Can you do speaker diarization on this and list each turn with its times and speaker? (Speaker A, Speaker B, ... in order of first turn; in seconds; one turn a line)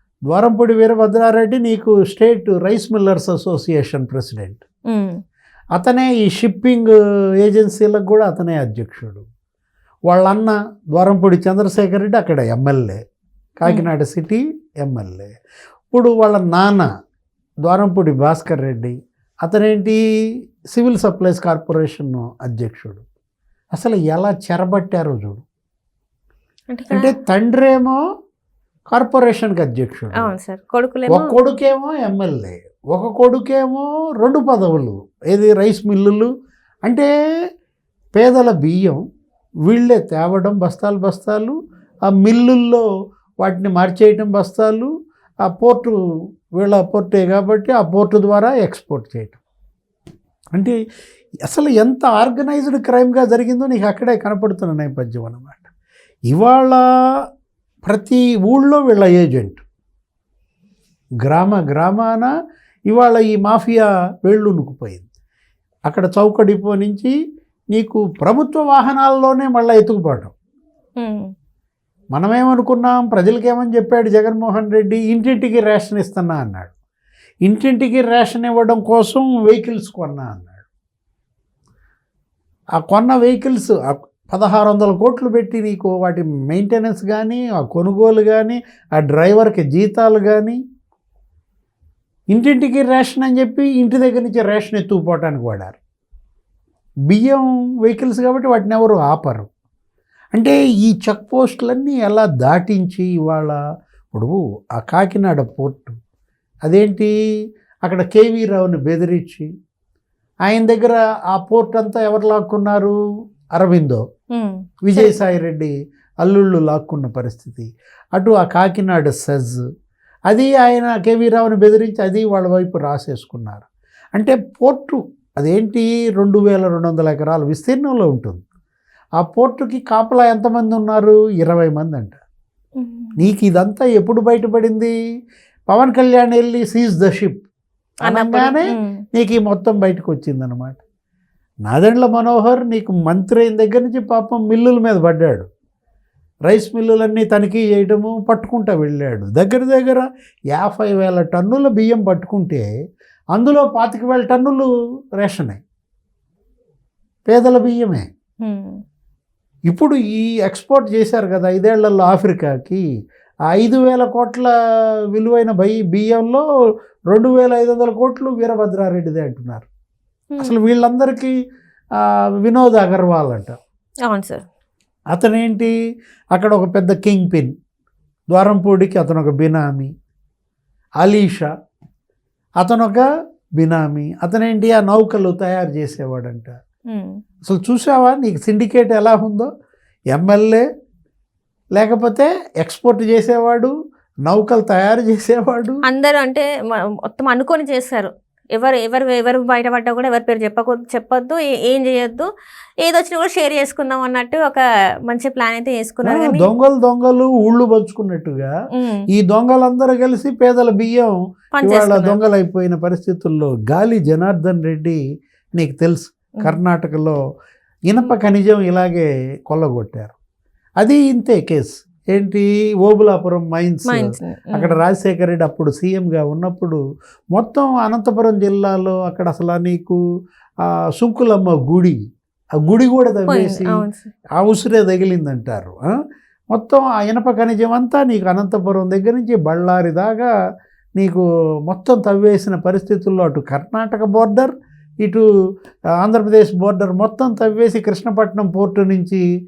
Speaker A: 0.3-4.6
Speaker B: 4.9-5.2
Speaker A: 5.8-9.2
Speaker A: 10.1-13.0
Speaker A: 13.6-15.3
Speaker A: 15.9-16.9
Speaker A: 17.6-20.0
Speaker A: 20.7-23.0
Speaker A: 23.7-25.4
Speaker B: 26.7-27.1
Speaker A: 26.9-28.0
Speaker A: 28.9-30.3
Speaker B: 30.2-31.3
Speaker A: 31.1-36.3
Speaker A: 38.1-39.0
Speaker A: 39.6-41.5
Speaker A: 42.1-42.9
Speaker A: 43.4-44.9
Speaker A: 45.5-45.9
Speaker A: 46.6-49.4
Speaker A: 51.5-55.7
Speaker A: 56.3-56.8
Speaker A: 57.9-59.6
Speaker A: 61.2-62.3
Speaker A: 62.9-65.0
Speaker A: 65.9-67.1
Speaker A: 67.7-70.3
Speaker B: 71.0-71.3
Speaker A: 72.1-76.7
Speaker A: 77.5-80.6
Speaker A: 82.8-90.6
Speaker A: 92.3-95.8
Speaker A: 97.1-99.5
Speaker A: 100.3-103.6
Speaker A: 104.1-106.0
Speaker A: 106.6-107.1
Speaker A: 107.8-109.5
Speaker A: 110.5-112.9
Speaker A: 113.6-114.0
Speaker B: 114.3-115.2
Speaker A: 114.8-119.6
Speaker A: 120.3-128.4
Speaker A: 129.2-132.2
Speaker B: 132.8-133.2
Speaker A: 133.2-134.9
Speaker A: 135.7-137.4
Speaker B: 138.1-139.0
Speaker A: 138.1-140.8
Speaker A: 141.7-145.5
Speaker A: 146.4-152.7
Speaker A: 153.3-155.6
Speaker A: 157.3-158.0
Speaker B: 158.4-158.8
Speaker A: 159.7-162.8
Speaker A: 163.5-164.5
Speaker A: 165.1-166.4
Speaker A: 167.1-169.7
Speaker A: 170.4-171.3
Speaker A: 172.0-173.6
Speaker B: 174.1-174.4
Speaker A: 175.1-175.7
Speaker A: 176.3-177.5
Speaker A: 178.3-179.9
Speaker A: 181.0-181.5
Speaker A: 182.6-183.0
Speaker A: 183.6-186.5
Speaker B: 186.9-187.2
Speaker A: 187.4-189.5
Speaker A: 190.1-190.6
Speaker A: 191.7-193.7
Speaker A: 194.3-195.8
Speaker B: 195.9-202.3
Speaker B: 202.8-206.4
Speaker A: 206.0-208.5
Speaker B: 208.7-209.1
Speaker A: 209.1-215.0
Speaker B: 211.6-212.2
Speaker A: 215.6-217.2
Speaker A: 217.9-220.1
Speaker A: 220.8-226.8
Speaker B: 223.9-224.8
Speaker A: 227.3-230.0
Speaker A: 230.9-232.0
Speaker A: 232.6-233.8
Speaker B: 233.3-234.1
Speaker A: 234.4-235.8
Speaker A: 236.5-240.3
Speaker A: 241.0-244.5
Speaker A: 246.0-249.2